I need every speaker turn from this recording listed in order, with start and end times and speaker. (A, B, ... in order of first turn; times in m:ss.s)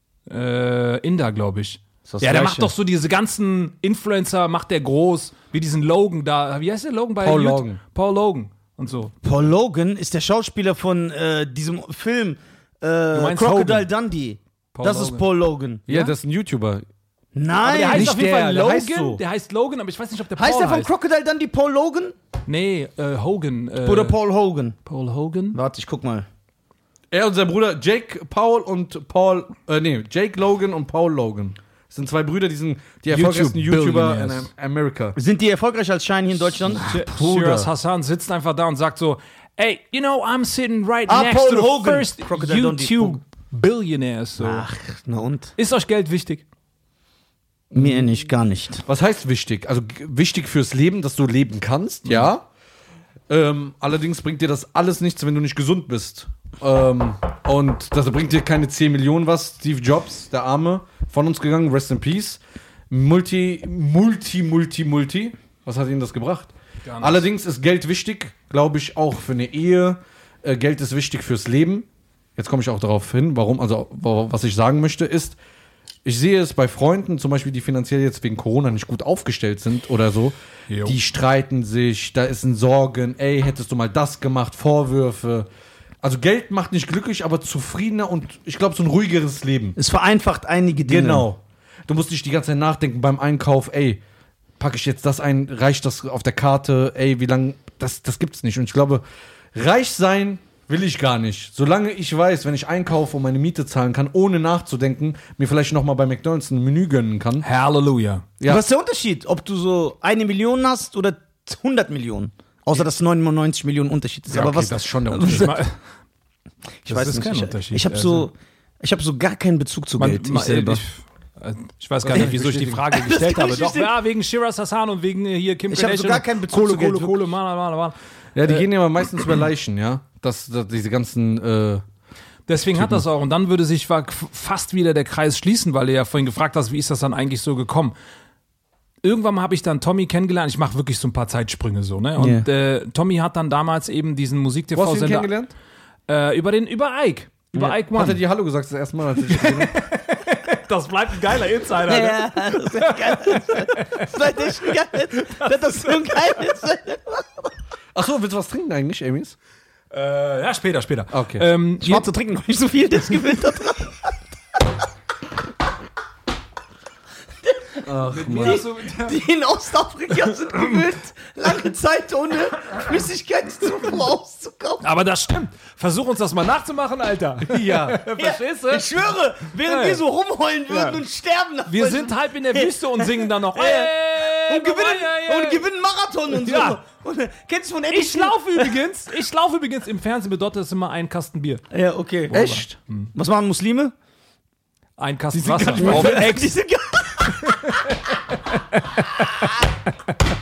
0:00.3-0:09.1 A
0:02.1-0:02.7 B
0:07.2-0:07.8 C
0:09.2-0:15.9 B
0:13.1-0:13.9 A
0:14.8-0:15.2 A
0:15.9-0:16.8 C
0:17.4-0:18.1 B
0:17.6-0:20.9 A
0:17.9-0:19.2 C
0:20.4-0:22.2 B
0:22.5-0:24.2 A
0:23.8-0:24.8 B
0:24.8-0:25.6 A
0:25.5-0:26.3 B
0:27.1-0:35.2 C
0:33.1-0:34.5 A
0:35.2-0:37.7 B
0:36.8-0:44.7 A
0:41.1-0:43.2 B
0:44.4-0:45.5 B
0:45.6-0:46.4 A
0:47.7-0:48.1 C
0:47.7-0:48.8 B
0:48.9-0:52.4 C
0:53.3-1:15.4 C
1:06.8-1:07.3 A
1:16.0-1:25.5 C
1:20.7-1:21.0 A
1:26.0-1:29.8 C
1:29.8-1:31.3 B
1:30.9-1:34.0 C
1:34.6-1:39.0 C
1:39.5-1:47.5 C
1:47.4-1:48.3 A
1:48.4-1:55.6 B
1:54.3-1:55.6 C
1:55.2-1:55.7 A
1:56.8-2:00.8 B
1:56.9-1:58.3 A
2:00.0-2:08.7 A
2:02.0-2:02.9 C
2:02.9-2:03.9 B
2:05.7-2:07.3 B
2:08.4-2:11.8 C
2:12.5-2:17.9 A
2:12.7-2:13.0 C
2:19.0-2:25.3 A
2:22.2-2:22.5 B
2:24.7-2:25.5 C
2:26.1-2:28.2 A
2:27.9-2:29.8 C
2:29.3-2:36.5 A
2:31.9-2:37.5 B
2:38.0-2:39.4 C
2:39.9-2:42.1 A
2:41.1-2:41.5 C
2:41.8-2:44.2 B
2:47.5-2:54.8 B
2:47.8-2:48.6 C
2:48.1-2:49.2 A
2:50.2-2:50.8 A
2:54.8-2:58.9 A
2:57.5-2:58.0 C
2:58.1-3:08.8 B
2:59.6-3:00.0 A
3:00.7-3:01.0 A
3:01.7-3:05.6 A
3:06.3-3:06.8 A
3:07.9-3:11.6 A
3:11.7-3:12.4 B
3:12.3-3:13.1 A
3:12.3-3:12.8 C
3:13.2-3:13.9 B
3:15.0-3:16.5 A
3:15.4-3:16.3 C
3:15.4-3:17.8 B
3:17.4-3:19.5 A